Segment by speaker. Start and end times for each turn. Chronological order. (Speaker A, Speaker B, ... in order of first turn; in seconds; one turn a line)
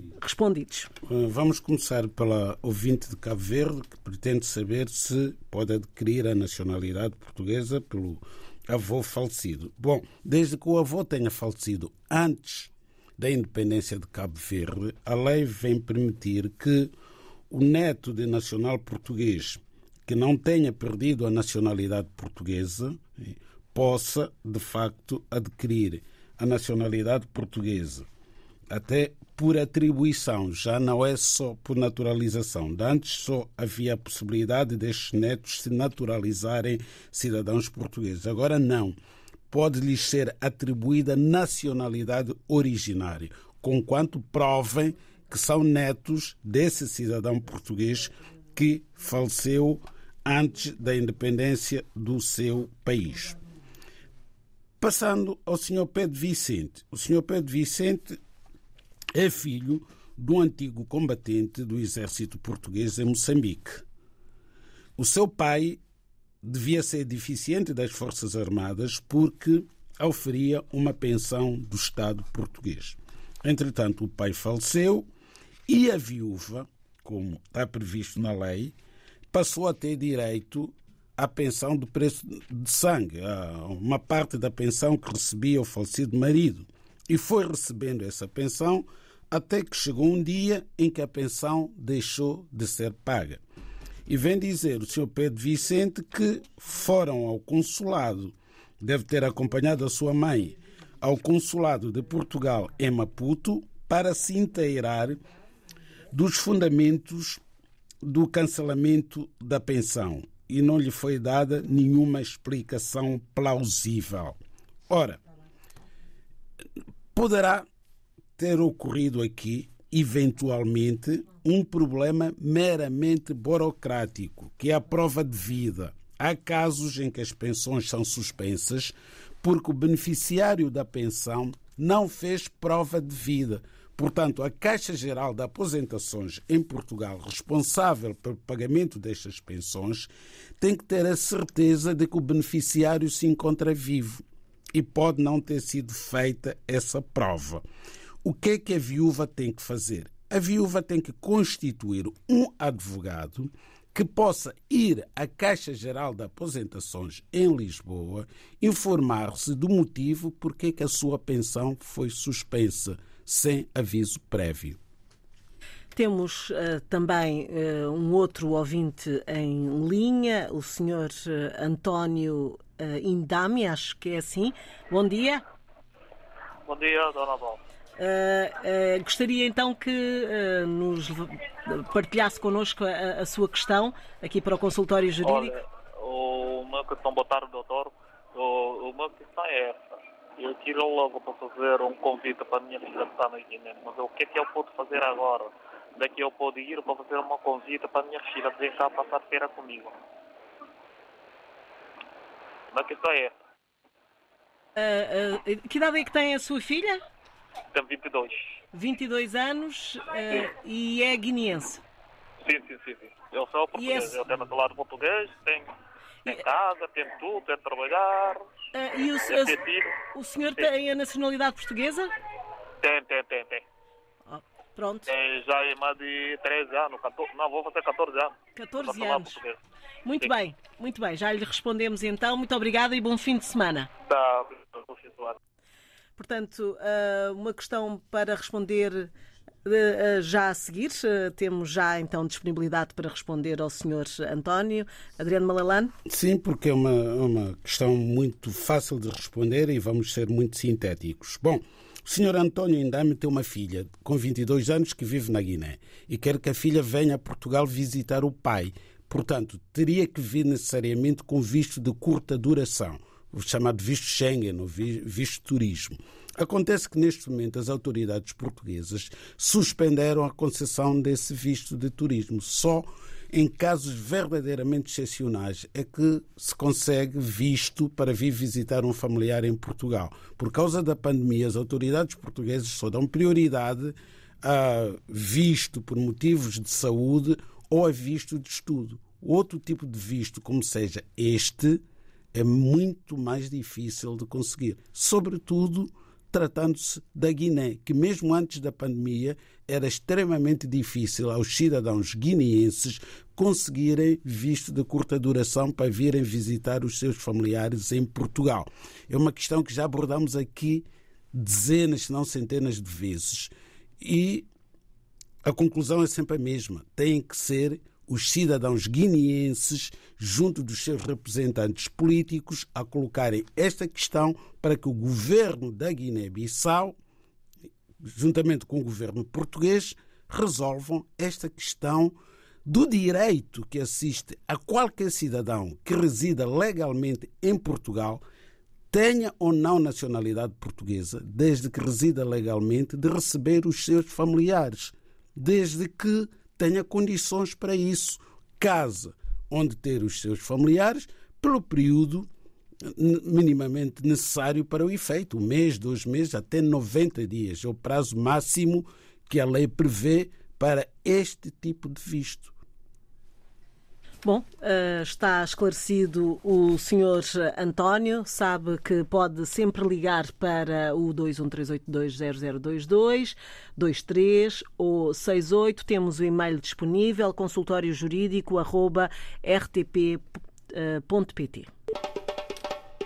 Speaker A: 0.1-0.9
Speaker B: 1.0-16.9
Speaker B: 17.5-28.1
Speaker B: 28.7-39.0
Speaker B: 39.5-53.4
Speaker B: 54.8-58.2
Speaker B: 59.1-63.8
Speaker B: 65.0-65.8
Speaker B: 66.4-75.1
Speaker B: 75.7-78.7
Speaker B: 79.3-93.4
Speaker B: 94.1-105.2
Speaker B: 106.1-107.4
Speaker B: 108.0-114.4
Speaker B: 114.9-115.2
Speaker B: 117.1-117.7
Speaker B: 118.4-140.1
Speaker B: 140.6-147.6
Speaker B: 148.2-164.8
Speaker A: 165.9-175.4
Speaker C: 176.7-177.6
Speaker A: 178.0-185.6
Speaker C: 185.2-199.9
Speaker C: 202.7-203.4
Speaker A: 204.8-207.0
Speaker C: 207.7-208.5
Speaker A: 208.7-211.8
Speaker C: 212.4-215.7
Speaker A: 213.7-214.1
Speaker C: 216.2-218.4
Speaker A: 218.7-219.6
Speaker C: 219.2-219.9
Speaker A: 220.1-222.1
Speaker C: 222.8-223.6
Speaker A: 224.3-225.1
Speaker C: 225.1-229.6
Speaker A: 228.6-229.4
Speaker A: 230.1-233.9
Speaker C: 230.1-230.3
Speaker C: 234.0-235.4
Speaker A: 236.2-239.1
Speaker A: 239.6-245.9
Speaker B: 246.1-314.5
Speaker B: 315.4-326.9
Speaker B: 328.0-338.2
Speaker B: 338.9-352.3
Speaker B: 352.9-362.6
Speaker A: 364.2-381.7